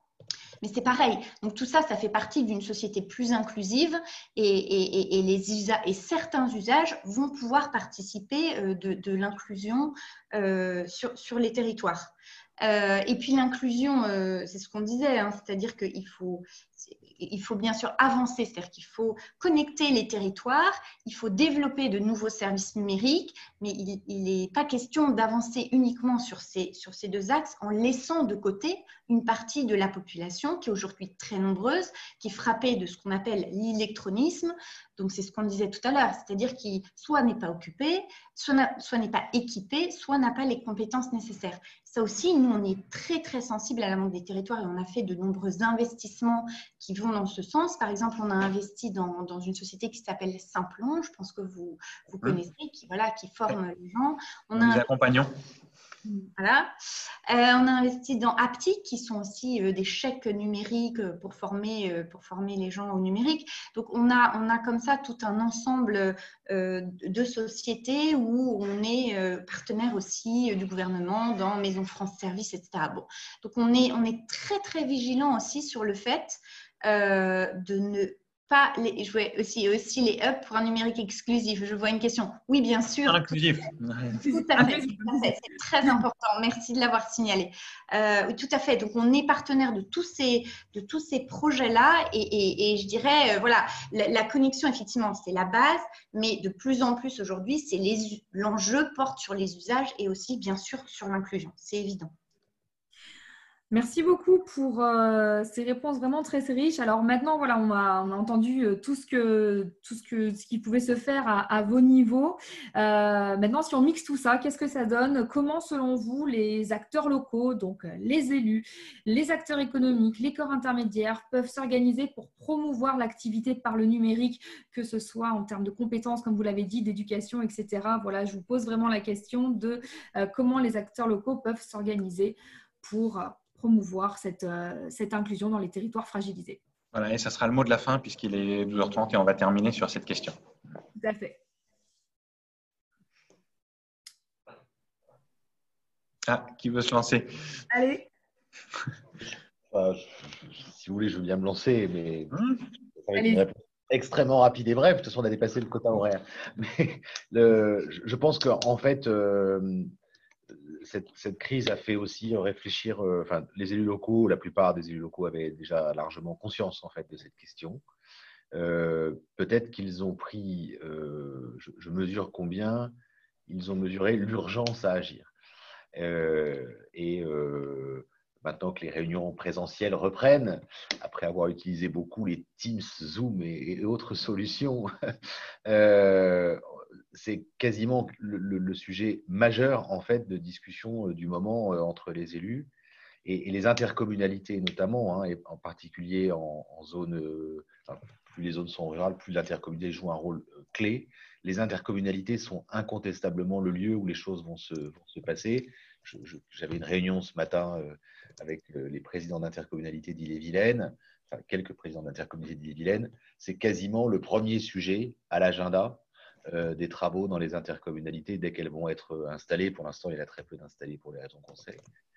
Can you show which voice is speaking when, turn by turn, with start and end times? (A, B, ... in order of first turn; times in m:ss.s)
0:00.6-0:54.9 A
0:54.6-0:55.3 B
0:56.4-0:56.7 A
0:57.3-1:23.3 A
1:23.0-1:24.7 B
1:24.2-1:42.1 A
1:24.6-1:25.3 C
1:43.7-2:16.6 C
2:16.9-2:20.4 B
2:21.0-2:21.4 C
2:26.3-2:27.3 B
2:27.7-2:28.0 C
2:29.7-2:32.3 D
2:33.0-2:39.9 D
2:33.1-2:33.4 C
2:40.5-2:47.8 D
2:48.5-2:52.9 D
2:53.5-2:55.3 D
2:55.9-3:04.9 D
3:05.6-3:06.6 D
3:07.1-3:12.7 D
3:13.2-3:41.8 D